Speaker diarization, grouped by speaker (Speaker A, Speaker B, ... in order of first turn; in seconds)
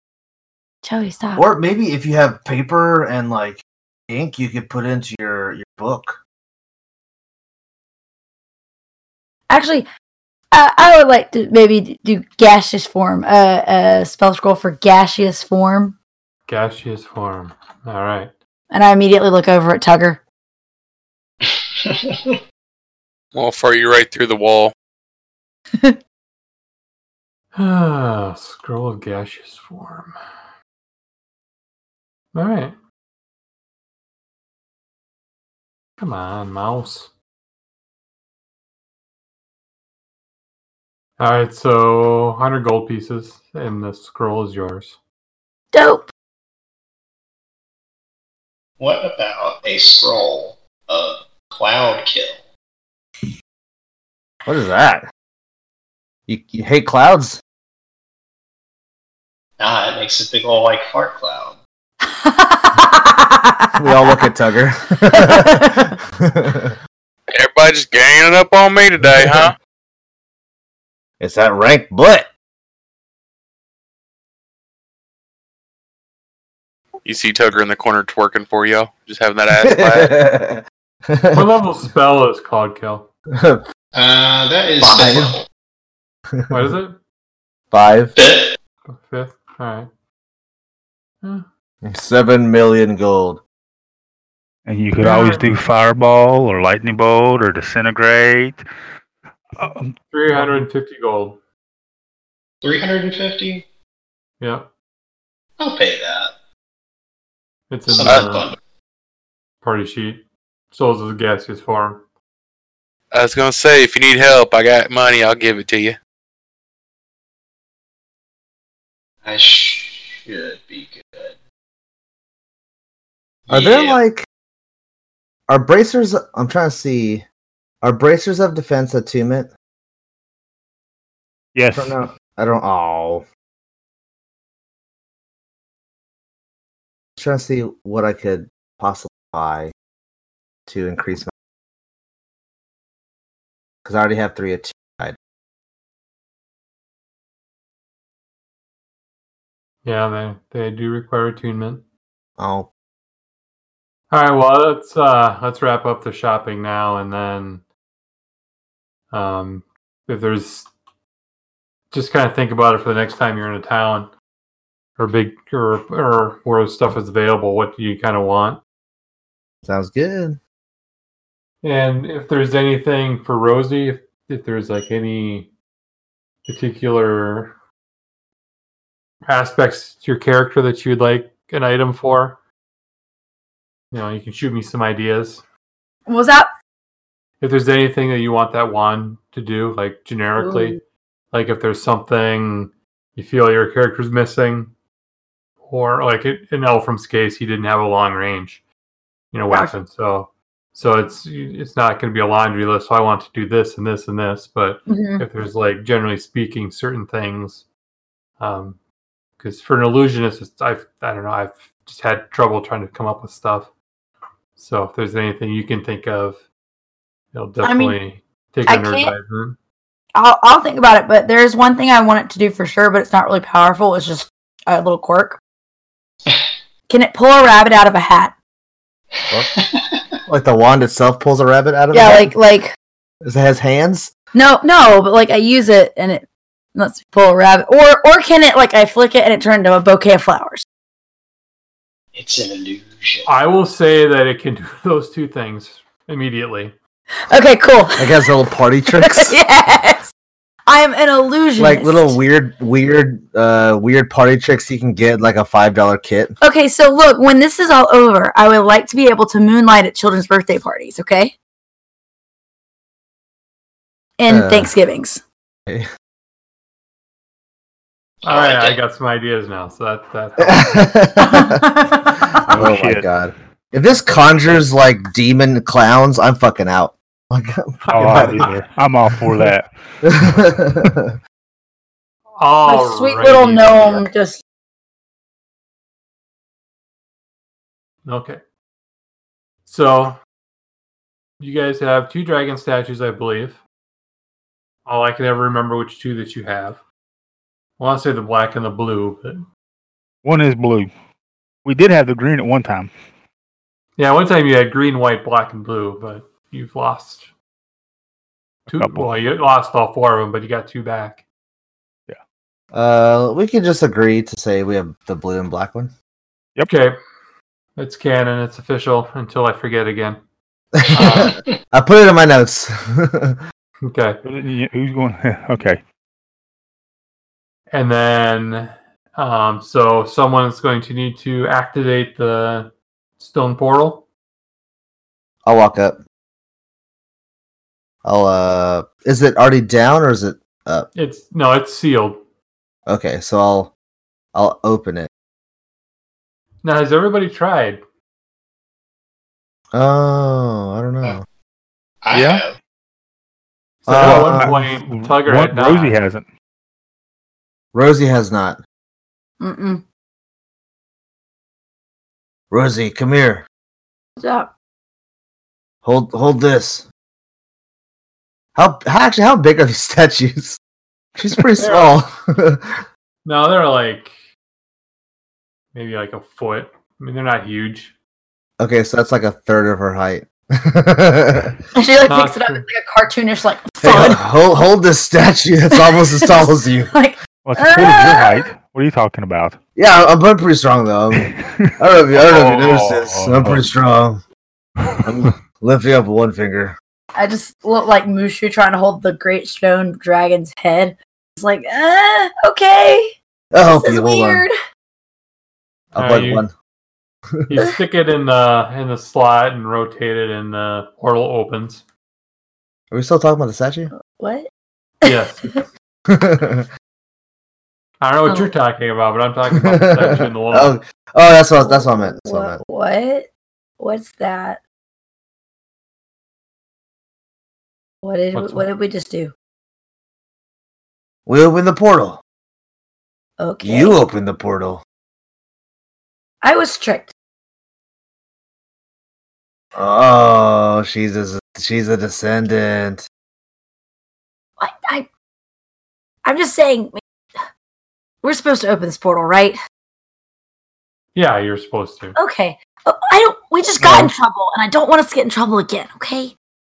Speaker A: 0.8-1.4, 9.5-9.9, 10.5-15.9, 18.7-20.2, 45.7-46.1, 62.0-64.2, 65.1-65.9, 186.1-186.5, 190.4-190.8, 204.9-205.2, 217.6-218.0, 218.7-219.1, 220.1-225.4, 226.9-228.3, 231.9-232.7, 234.3-240.6, 247.3-248.3, 248.9-250.1, 250.7-252.2, 256.4-261.3, 264.2-265.2, 271.2-272.2, 282.7-284.4, 359.4-359.8, 364.2-364.5, 381.7-384.2, 385.8-388.4, 397.1-404.5, 414.0-414.5, 415.0-415.6, 418.3-418.5, 421.6-424.6, 428.0-429.3, 433.4-433.9, 436.4-437.1, 444.6-445.1, 446.2-447.0, 448.2-449.6, 452.1-456.3
Speaker B: 1.4-6.2, 54.5-55.0, 56.3-57.4, 63.7-66.8, 69.0-69.5, 71.2-72.3, 79.6-81.5, 83.3-83.6, 84.8-85.3, 86.3-86.7, 87.7-88.1, 91.8-93.4, 123.5-124.2, 125.5-127.2, 127.8-129.5, 131.7-133.2, 137.2-139.7, 140.7-141.3, 143.8-145.2, 152.4-152.7, 169.6-170.4, 230.3-232.3, 233.2-234.1, 248.0-249.3, 251.6-256.3, 264.3-264.7, 270.4-271.6, 272.4-278.5, 280.0-281.1, 312.7-315.9, 320.8-323.4, 335.4-336.0, 338.0-340.9, 342.9-343.7, 344.3-345.1, 349.7-351.2, 353.9-354.5, 357.7-358.6, 362.5-363.4, 365.8-366.8, 368.5-370.6, 371.2-372.7, 378.6-381.5, 383.8-386.9, 389.8-394.2, 395.0-396.8, 403.5-404.4, 405.9-406.5, 412.9-413.9, 416.1-416.7, 419.5-422.6, 431.2-432.2, 433.6-434.8, 439.7-443.0
Speaker C: 16.5-18.3, 27.5-30.1, 32.3-32.8, 36.0-37.1, 41.2-45.0, 81.3-83.1, 86.5-87.0, 88.8-89.9, 95.0-95.6, 100.1-101.4, 104.4-104.7, 107.7-108.5, 109.6-112.0, 149.8-151.8, 154.1-157.6, 159.1-160.7, 161.9-164.1, 165.0-168.6, 171.6-175.5, 176.4-177.5, 179.2-182.4, 183.9-185.4, 187.4-190.8, 191.3-194.7, 195.6-198.6, 199.3-207.7, 208.4-208.8, 209.4-213.7, 214.6-216.4, 217.3-219.6, 243.2-246.7, 268.2-270.9, 277.9-278.4, 282.4-284.1, 288.0-288.4, 289.6-290.2, 291.4-293.6, 294.8-296.8, 297.8-299.4, 304.0-307.3, 308.7-311.2, 316.7-317.0, 317.8-320.2, 320.9-321.3, 323.8-324.2, 327.7-334.1, 340.9-342.2, 346.6-347.8, 353.9-356.0, 371.6-371.9, 373.2-374.2, 375.7-377.9, 382.1-382.6, 405.9-406.4, 407.5-411.8, 415.0-415.6, 418.0-420.8, 428.3-428.7, 451.1-452.1, 453.8-454.1
Speaker D: 21.4-22.4, 48.8-52.5, 59.6-61.6, 83.9-85.5, 88.1-88.5, 102.6-103.7, 105.6-106.3, 107.9-108.6, 119.2-121.4, 123.5-124.0, 229.3-230.0, 242.1-243.3, 268.2-268.8, 321.1-321.4, 352.0-352.6
Speaker E: 23.3-24.7, 67.3-69.5, 77.0-80.2, 113.1-116.0
Speaker F: 94.7-98.6, 99.6-100.6, 131.5-132.0, 272.5-273.1, 277.9-280.5, 300.2-300.9, 301.6-302.9, 308.7-309.1, 324.2-325.8, 352.1-352.4, 353.9-356.3, 387.4-389.6, 391.1-393.6